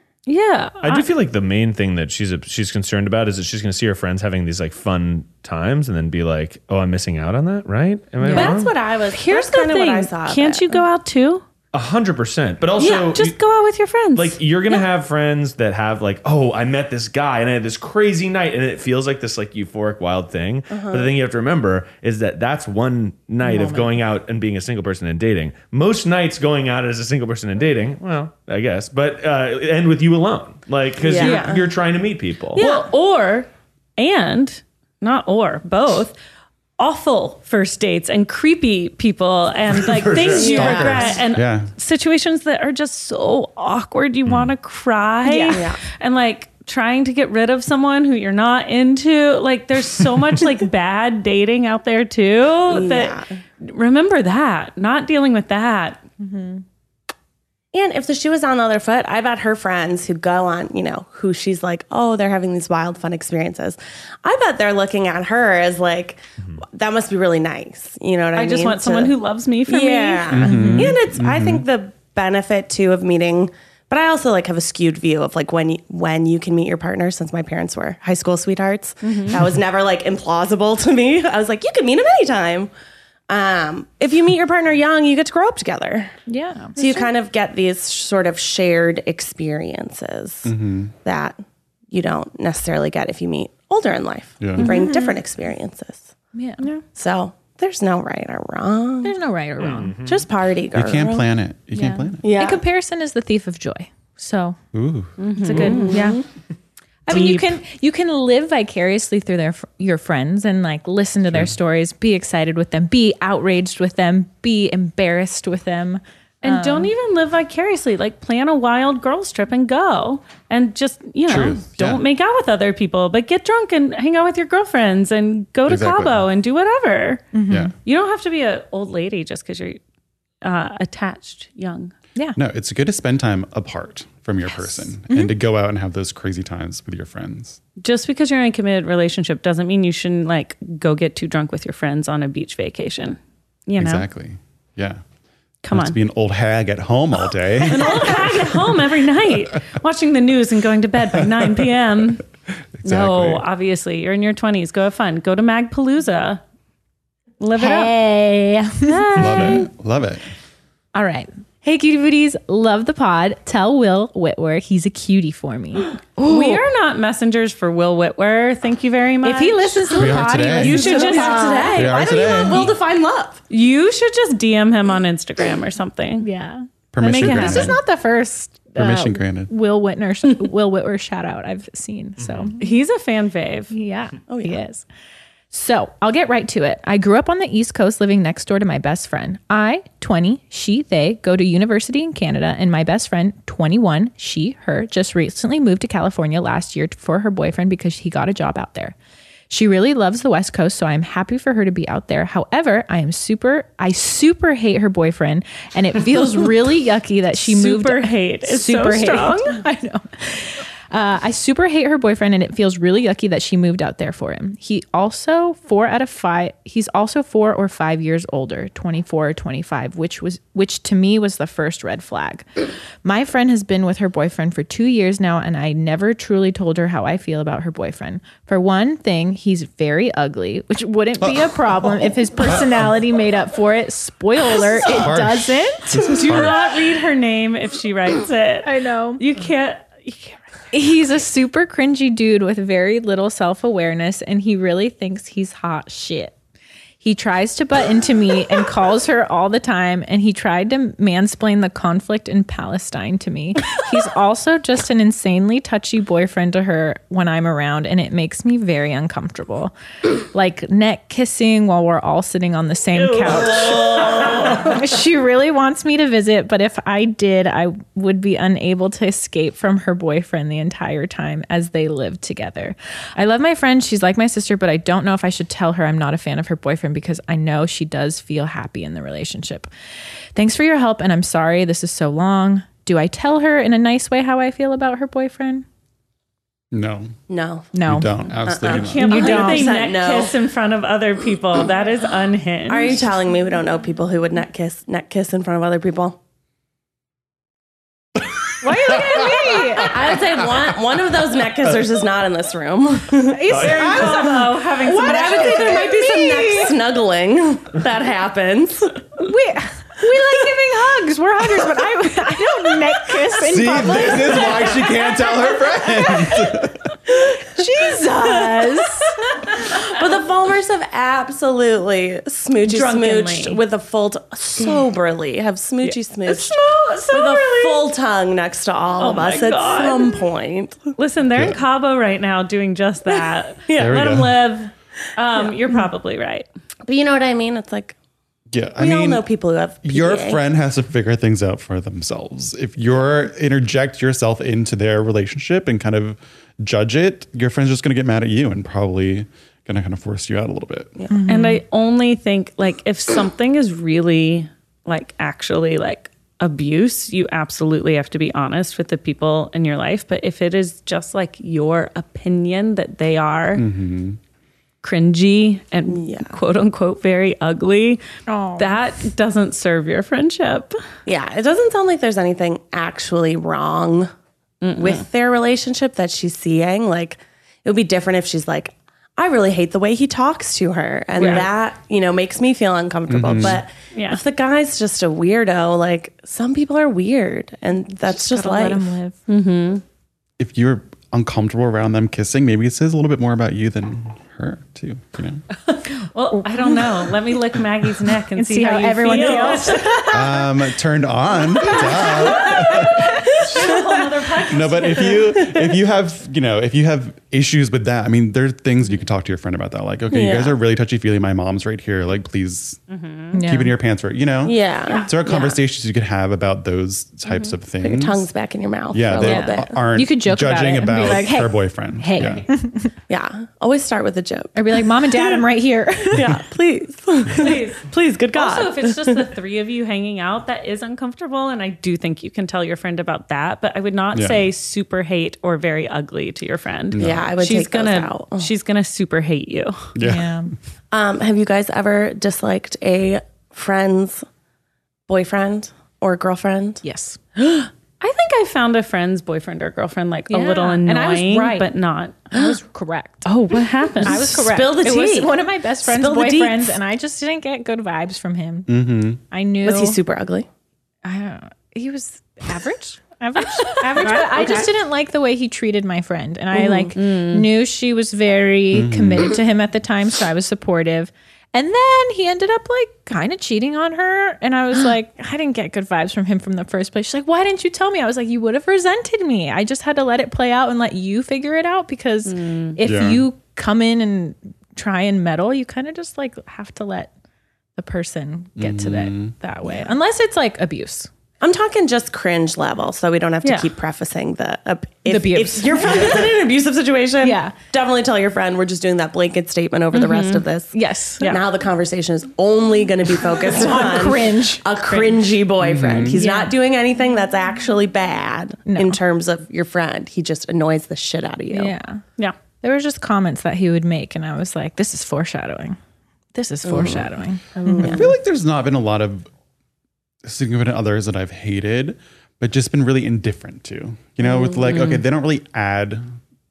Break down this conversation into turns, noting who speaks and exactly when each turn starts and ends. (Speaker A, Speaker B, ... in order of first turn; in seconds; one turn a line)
Speaker A: 0.2-1.1
Speaker B: 0.8-8.7
Speaker C: 8.2-8.5
Speaker D: 8.3-10.8
Speaker A: 8.3-8.6
Speaker A: 9.1-11.4
Speaker B: 11.7-13.4
Speaker A: 12.8-14.8
Speaker B: 14.1-32.6
Speaker D: 20.7-21.1
Speaker C: 23.4-24.0
Speaker D: 31.0-31.7
Speaker A: 31.2-31.6
Speaker A: 32.5-36.1
Speaker D: 32.6-32.9
Speaker A: 36.8-56.0
Speaker B: 39.8-40.9
Speaker D: 40.4-41.2
Speaker E: 40.4-41.7
Speaker B: 44.2-44.5
Speaker C: 45.3-45.6
Speaker D: 45.4-45.8
Speaker D: 52.7-53.4
Speaker C: 56.2-56.6
Speaker D: 57.7-69.1
Speaker A: 68.3-70.4
Speaker D: 69.7-82.7
Speaker E: 70.3-71.6
Speaker C: 70.4-70.9
Speaker A: 79.0-79.4
Speaker D: 83.3-86.2
Speaker C: 86.3-87.0
Speaker D: 86.8-91.4
Speaker E: 90.4-90.9
Speaker D: 91.9-96.1
Speaker E: 94.4-94.7
Speaker A: 94.6-95.2
Speaker C: 96.3-96.6
Speaker D: 96.9-99.2
Speaker C: 99.0-99.9
Speaker B: 99.6-100.3
Speaker D: 100.0-101.3
Speaker E: 100.7-102.3
Speaker C: 101.7-104.6
Speaker D: 102.2-102.6
Speaker E: 104.7-105.2
Speaker A: 105.2-106.2
Speaker C: 105.4-106.2
Speaker D: 105.5-106.2
Speaker A: 107.1-107.5
Speaker C: 107.1-116.9
Speaker E: 111.3-111.5
Speaker A: 116.4-127.2
Speaker E: 121.3-122.0
Speaker E: 125.7-126.2
Speaker C: 127.3-127.7
Speaker E: 127.5-127.7
Speaker A: 127.8-129.8
Speaker A: 130.4-131.9
Speaker E: 132.3-137.6
Speaker C: 134.5-135.3
Speaker A: 137.8-144.1
Speaker E: 143.8-145.0
Speaker A: 145.6-146.0
Speaker E: 145.7-148.6
Speaker A: 147.6-152.2
Speaker E: 152.8-153.4
Speaker A: 152.8-156.4
Speaker A: 157.4-157.9
Speaker C: 157.6-159.6
Speaker A: 158.8-159.7
Speaker E: 159.2-160.2
Speaker C: 160.9-166.6
Speaker A: 166.2-171.7
Speaker C: 169.2-172.7
Speaker E: 169.9-171.0
Speaker D: 170.6-173.4
Speaker E: 171.7-172.7
Speaker A: 173.5-176.2
Speaker C: 176.2-182.6
Speaker E: 176.9-177.8
Speaker A: 177.0-177.7
Speaker E: 178.8-179.5
Speaker B: 182.2-182.5
Speaker A: 182.6-183.7
Speaker C: 183.7-184.8
Speaker D: 184.3-184.6
Speaker C: 185.5-198.9
Speaker C: 199.5-236.1
Speaker A: 207.4-209.6
Speaker E: 231.2-233.0
Speaker E: 234.8-236.7
Speaker A: 236.1-240.4
Speaker C: 238.6-239.2
Speaker C: 240.7-246.3
Speaker C: 247.0-279.7
Speaker A: 262.9-264.7
Speaker D: 263.9-264.5
Speaker C: 280.3-285.6
Speaker E: 286.7-287.2
Speaker D: 287.3-287.7
Speaker C: 287.7-288.3
Speaker E: 287.8-289.1
Speaker D: 288.4-290.3
Speaker A: 288.6-293.1
Speaker C: 289.0-289.7
Speaker D: 292.7-296.2
Speaker C: 298.6-299.9
Speaker D: 299.8-304.3
Speaker C: 303.3-306.8
Speaker B: 303.5-304.0
Speaker A: 303.5-306.0
Speaker D: 304.9-309.1
Speaker C: 309.2-314.8
Speaker E: 313.4-316.9
Speaker C: 315.8-316.6
Speaker C: 317.4-319.2
Speaker D: 317.9-318.5
Speaker D: 319.3-326.6
Speaker A: 322.6-323.6
Speaker A: 325.8-327.9
Speaker D: 327.1-330.9
Speaker A: 329.0-330.2
Speaker A: 331.0-336.4
Speaker E: 331.3-331.6
Speaker E: 333.7-334.4
Speaker D: 336.9-337.9
Speaker E: 338.5-339.2
Speaker D: 338.8-340.4
Speaker E: 339.8-351.0
Speaker C: 351.1-351.6
Speaker A: 351.3-363.6
Speaker E: 363.5-364.2
Speaker A: 364.8-368.0
Speaker D: 365.9-366.4
Speaker C: 368.3-368.7
Speaker A: 368.6-370.7
Speaker D: 371.1-374.1
Speaker A: 374.6-375.0
Speaker D: 374.8-388.9
Speaker A: 381.2-381.5
Speaker E: 383.1-383.6
Speaker A: 383.9-384.2
Speaker C: 388.1-389.2
Speaker A: 389.3-389.8
Speaker E: 390.4-395.4
Speaker A: 395.9-400.0
Speaker C: 398.4-400.4
Speaker E: 400.1-403.8
Speaker C: 401.7-402.9
Speaker A: 402.1-405.4
Speaker D: 403.3-403.8
Speaker E: 404.4-412.8
Speaker D: 410.1-410.6
Speaker A: 412.9-413.3
Speaker C: 413.3-413.7
Speaker E: 413.4-418.3
Speaker D: 414.4-415.5
Speaker D: 417.8-419.8
Speaker E: 418.9-422.5
Speaker C: 419.2-422.9
Speaker D: 423.1-425.3
Speaker C: 424.5-426.4
Speaker A: 426.1-426.5
Speaker D: 426.3-429.2
Speaker A: 427.3-439.9
Speaker E: 434.1-434.5
Speaker E: 436.9-437.3
Speaker D: 437.0-438.5
Speaker E: 439.9-440.4
Speaker C: 440.0-440.5
Speaker D: 440.9-444.2
Speaker D: 445.1-446.8
Speaker C: 446.8-447.2
Speaker D: 447.4-447.7
Speaker A: 448.0-452.2
Speaker C: 450.3-451.7
Speaker C: 452.3-453.3
Speaker A: 453.2-454.4
Speaker C: 454.0-460.0
Speaker D: 454.0-456.7
Speaker E: 458.7-459.2
Speaker D: 459.6-460.5
Speaker C: 461.0-487.1
Speaker D: 463.9-464.7
Speaker D: 466.5-467.0
Speaker A: 466.9-467.4
Speaker E: 468.7-469.4
Speaker A: 482.2-482.8
Speaker E: 482.8-483.2
Speaker C: 487.8-491.1
Speaker E: 488.6-489.3
Speaker D: 491.4-500.7
Speaker A: 493.4-493.7
Speaker C: 495.1-496.2
Speaker C: 497.2-497.5
Speaker A: 499.9-500.4
Speaker C: 500.7-501.3
Speaker D: 501.2-511.7
Speaker C: 503.5-504.6
Speaker A: 504.9-505.3
Speaker E: 505.6-506.2
Speaker C: 506.1-506.6
Speaker C: 508.7-509.0
Speaker C: 511.5-512.0
Speaker C: 512.6-515.8
Speaker C: 516.3-518.0
Speaker D: 516.6-517.1
Speaker E: 516.7-517.0
Speaker D: 517.6-518.1
Speaker E: 517.8-519.3
Speaker E: 520.2-526.0
Speaker A: 524.7-525.0